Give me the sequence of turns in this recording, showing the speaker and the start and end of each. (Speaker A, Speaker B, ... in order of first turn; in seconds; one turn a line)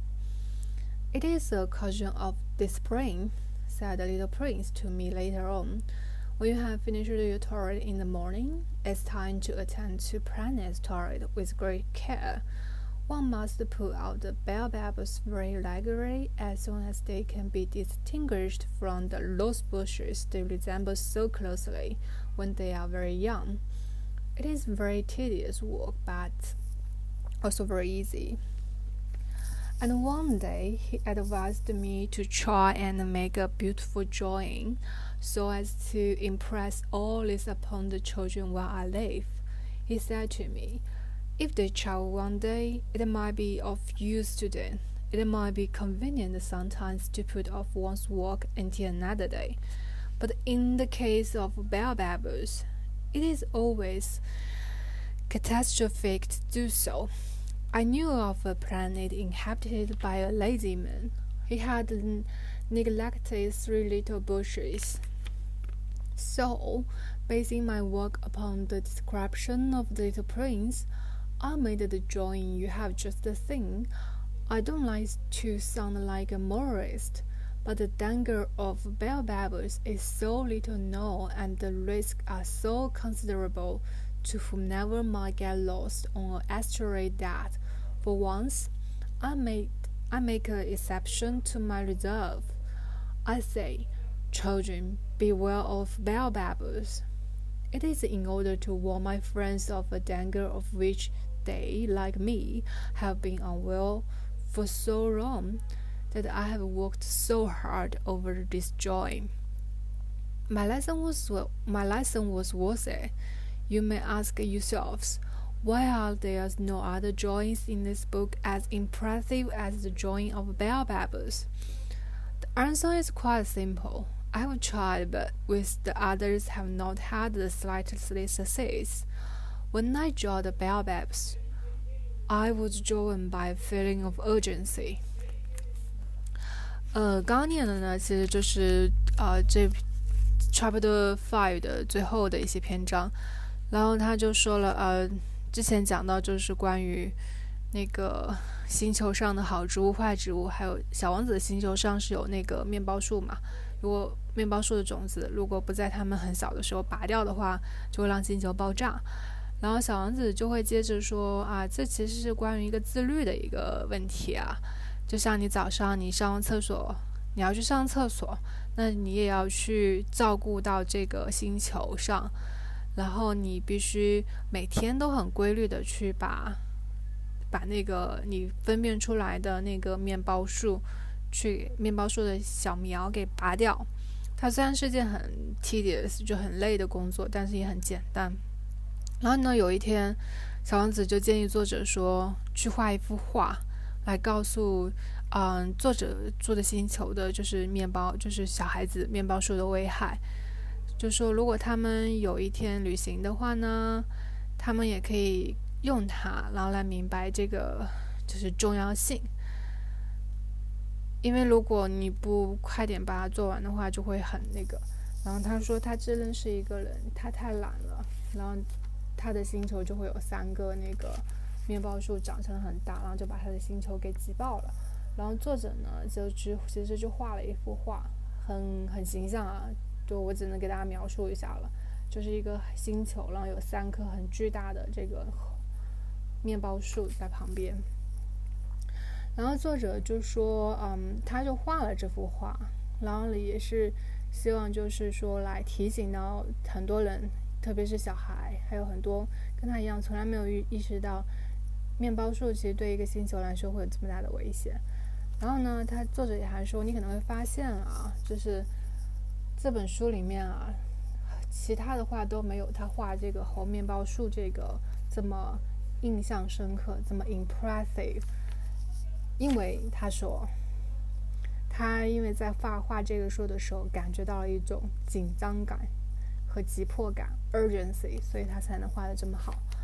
Speaker A: 1.1-12.4
Speaker A: 13.1-23.6
Speaker A: 24.4-26.6
Speaker A: 27.4-28.4
Speaker A: 29.8-40.8
Speaker A: 41.4-49.6
Speaker A: 50.2-54.7
Speaker A: 55.3-65.0
Speaker A: 66.2-70.9
Speaker A: 71.4-73.9
Speaker A: 74.5-92.6
Speaker A: 93.2-97.0
Speaker A: 97.7-109.3
Speaker A: 110.5-113.1
Speaker A: 113.7-121.5
Speaker A: 122.5-129.1
Speaker A: 129.7-131.4
Speaker A: 132.3-135.1
Speaker A: 136.9-139.8
Speaker A: 140.5-143.2
Speaker A: 143.7-147.2
Speaker A: 147.7-172.3
Speaker A: 172.9-176.6
Speaker A: 177.5-188.4
Speaker A: 189.2-200.2
Speaker A: 201.0-209.3
Speaker A: 211.2-235.6
Speaker A: 236.4-237.9
Speaker A: 239.3-251.3
Speaker A: 252.0-254.8
Speaker A: 255.4-258.7
Speaker A: 259.6-268.2
Speaker A: 269.4-270.6
Speaker A: 271.7-275.9
Speaker A: 276.5-279.6